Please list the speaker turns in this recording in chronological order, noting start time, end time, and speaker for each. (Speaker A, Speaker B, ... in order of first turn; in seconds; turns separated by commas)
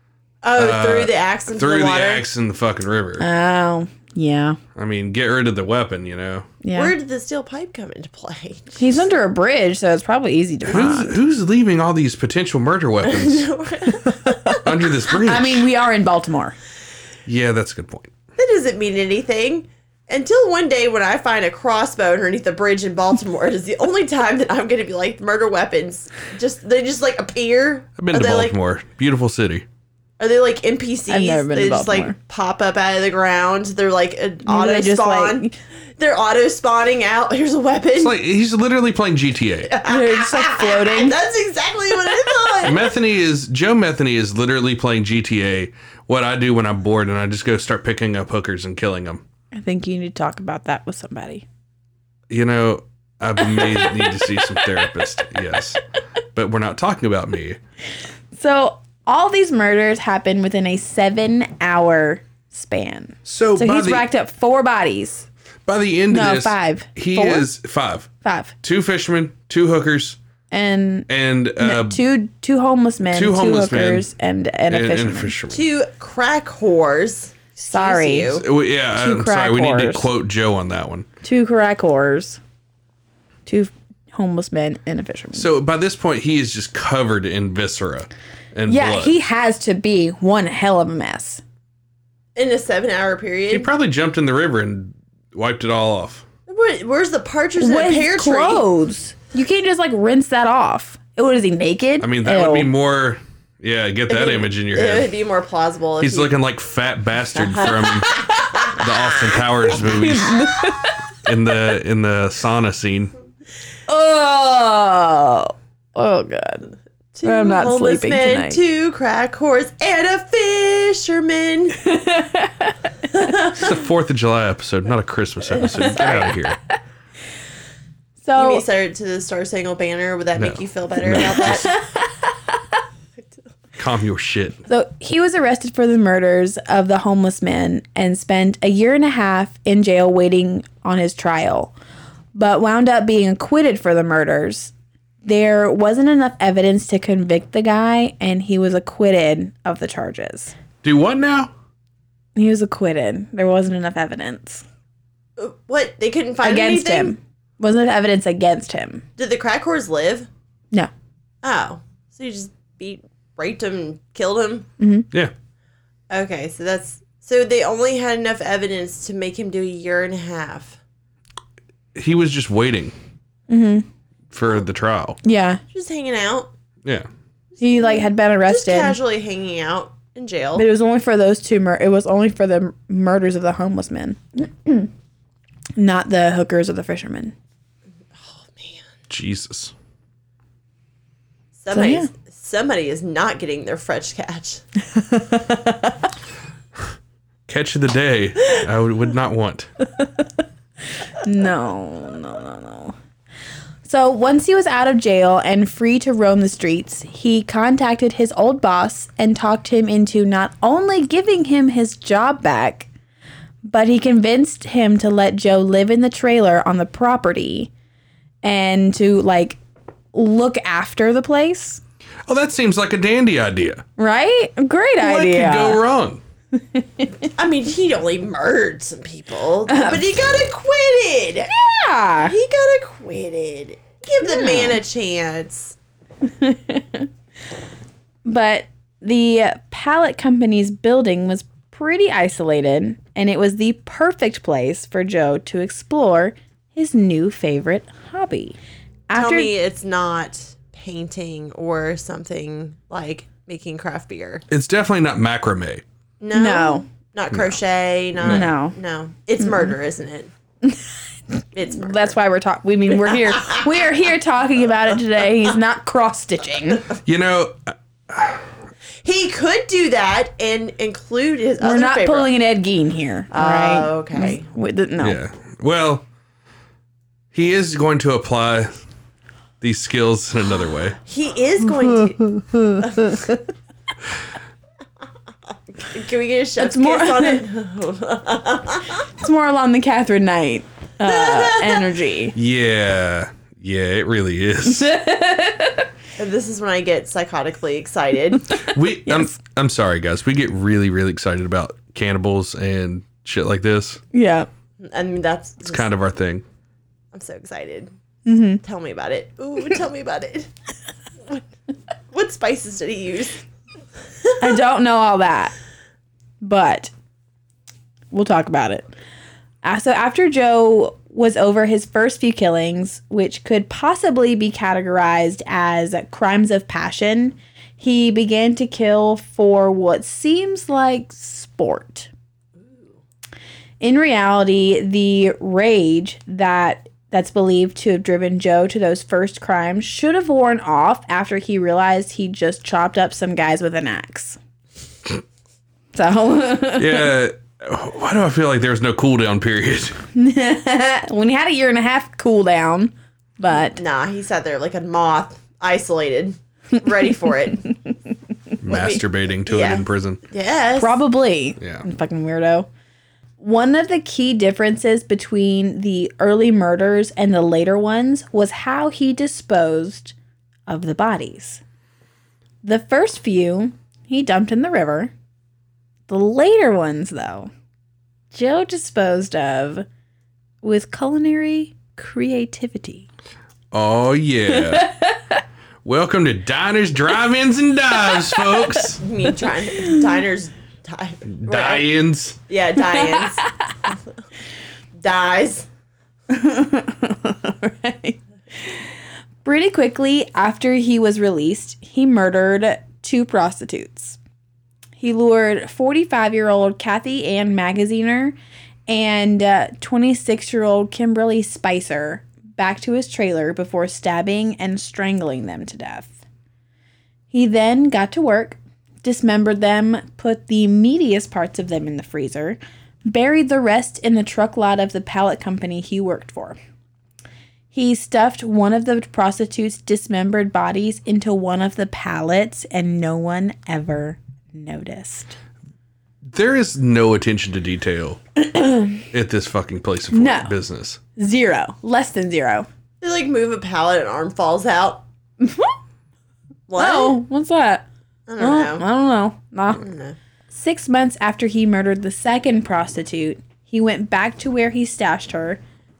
Speaker A: 0.4-2.2, Speaker B: 0.6-3.2, Speaker C: 3.2-4.6, Speaker B: 4.8-6.5, Speaker C: 6.6-6.9, Speaker A: 6.7-9.0, Speaker C: 8.8-11.2, Speaker B: 10.7-13.5, Speaker A: 13.0-14.6, Speaker B: 14.6-15.6, Speaker C: 15.2-16.6, Speaker B: 17.2-18.1, Speaker A: 18.4-28.5, Speaker B: 28.0-29.6, Speaker A: 30.2-38.2, Speaker C: 31.1-32.1, Speaker C: 34.5-35.5, Speaker B: 38.0-39.7, Speaker A: 39.7-42.8, Speaker C: 39.8-41.2, Speaker B: 42.6-49.2, Speaker C: 49.5-51.4, Speaker B: 52.3-55.8, Speaker C: 53.8-54.1, Speaker B: 56.3-57.6, Speaker C: 58.3-65.3, Speaker B: 63.2-64.0, Speaker B: 65.7-68.1, Speaker C: 66.1-67.5, Speaker C: 68.2-68.5, Speaker B: 68.6-70.2, Speaker C: 70.5-75.3, Speaker B: 71.1-72.0, Speaker B: 73.1-74.1, Speaker B: 74.7-75.6, Speaker A: 75.5-78.5, Speaker C: 77.6-78.4, Speaker B: 78.3-81.1, Speaker C: 78.9-80.1, Speaker C: 81.2-82.4, Speaker C: 83.5-85.5, Speaker B: 85.3-89.2, Speaker C: 88.7-91.4, Speaker A: 92.3-93.7, Speaker B: 93.5-96.2, Speaker A: 96.5-98.6, Speaker C: 97.6-102.7, Speaker B: 102.0-105.1, Speaker A: 104.1-106.3, Speaker B: 106.0-108.2, Speaker A: 107.3-109.8, Speaker B: 108.7-110.5, Speaker C: 109.8-111.0, Speaker B: 111.2-113.1, Speaker C: 113.9-116.7, Speaker A: 117.1-121.8, Speaker C: 117.2-118.6, Speaker C: 121.8-123.3, Speaker A: 123.1-123.7, Speaker B: 123.5-126.6, Speaker C: 125.6-126.2, Speaker A: 125.7-126.3, Speaker C: 128.2-128.6, Speaker A: 128.3-131.8, Speaker B: 130.3-131.7, Speaker C: 131.5-132.3, Speaker B: 133.8-134.6, Speaker C: 134.7-141.7, Speaker C: 142.3-150.5, Speaker B: 150.8-151.5, Speaker C: 152.3-154.6, Speaker A: 155.4-157.1, Speaker C: 156.4-159.0, Speaker A: 159.2-160.3, Speaker A: 161.4-164.7, Speaker C: 164.8-165.1, Speaker A: 166.1-170.8, Speaker B: 171.9-172.9, Speaker C: 173.5-173.8, Speaker B: 174.3-175.2, Speaker C: 175.2-175.6, Speaker A: 175.7-176.5, Speaker A: 177.6-180.7, Speaker C: 177.6-179.0, Speaker C: 180.5-184.9, Speaker C: 185.8-187.3, Speaker A: 188.2-188.9, Speaker B: 189.1-189.7, Speaker A: 191.5-194.6, Speaker C: 191.7-192.1, Speaker C: 194.9-196.0, Speaker B: 197.5-199.7, Speaker C: 201.2-202.9, Speaker C: 203.8-212.9, Speaker C: 213.6-217.7, Speaker C: 218.4-219.6, Speaker C: 220.1-221.8, Speaker B: 222.3-223.8, Speaker C: 224.0-225.8, Speaker B: 225.0-226.2, Speaker C: 226.6-227.3, Speaker A: 227.3-231.5, Speaker C: 229.7-230.1, Speaker C: 231.5-232.3, Speaker A: 232.2-235.8, Speaker C: 234.2-234.8, Speaker C: 236.2-237.1, Speaker C: 238.2-248.6, Speaker C: 249.1-249.5, Speaker A: 249.1-254.4, Speaker B: 254.5-255.8, Speaker A: 256.2-260.3, Speaker C: 256.3-256.9, Speaker B: 257.3-257.6, Speaker B: 258.2-258.5, Speaker C: 258.2-258.7, Speaker C: 259.4-259.7, Speaker C: 260.6-266.9, Speaker A: 261.5-262.1, Speaker A: 262.9-263.7, Speaker B: 267.0-268.4, Speaker A: 269.0-272.3, Speaker C: 271.6-275.2, Speaker A: 273.3-274.4, Speaker B: 275.0-276.1, Speaker B: 277.3-278.7, Speaker B: 279.6-281.0, Speaker A: 281.1-282.2, Speaker C: 281.8-283.4, Speaker A: 282.8-283.2, Speaker A: 285.8-289.1, Speaker C: 286.6-287.4, Speaker C: 289.2-292.3, Speaker A: 291.0-291.9, Speaker B: 292.3-294.9, Speaker C: 294.6-295.9, Speaker A: 296.2-298.5, Speaker C: 298.5-299.3, Speaker B: 298.6-304.0, Speaker C: 304.1-304.5, Speaker A: 304.8-305.9, Speaker B: 305.6-306.4, Speaker A: 307.1-307.9, Speaker C: 308.2-308.6, Speaker A: 308.6-310.5, Speaker A: 312.1-313.4, Speaker C: 314.4-315.5, Speaker C: 316.4-316.9, Speaker C: 318.1-318.9, Speaker C: 319.6-332.1, Speaker C: 333.8-344.4, Speaker C: 345.9-347.1, Speaker B: 346.8-350.0, Speaker C: 350.1-353.8, Speaker A: 353.7-357.7, Speaker B: 358.6-360.2, Speaker A: 358.7-361.0, Speaker C: 360.8-362.7, Speaker B: 361.6-361.8, Speaker C: 363.4-370.1, Speaker C: 370.7-371.6, Speaker C: 372.6-375.1, Speaker C: 376.1-377.5, Speaker C: 378.3-379.8, Speaker C: 380.6-383.1, Speaker B: 383.7-384.9, Speaker C: 384.5-385.4, Speaker B: 385.8-389.0, Speaker C: 388.1-389.0, Speaker A: 389.0-391.9, Speaker B: 391.3-392.4, Speaker A: 392.5-393.4, Speaker C: 393.0-393.7, Speaker A: 395.0-395.7, Speaker C: 396.3-398.2, Speaker C: 399.4-404.2, Speaker C: 405.0-408.3, Speaker C: 408.9-416.2, Speaker C: 417.3-426.6, Speaker C: 427.7-435.3, Speaker B: 436.3-438.2, Speaker C: 438.4-439.0, Speaker B: 439.1-441.0, Speaker C: 440.1-440.5, Speaker C: 441.1-442.7, Speaker A: 443.0-445.0, Speaker C: 445.4-445.7, Speaker A: 446.7-447.2, Speaker C: 446.8-447.8, Speaker A: 448.3-448.8, Speaker C: 448.4-449.8, Speaker A: 449.7-450.1, Speaker C: 450.5-455.6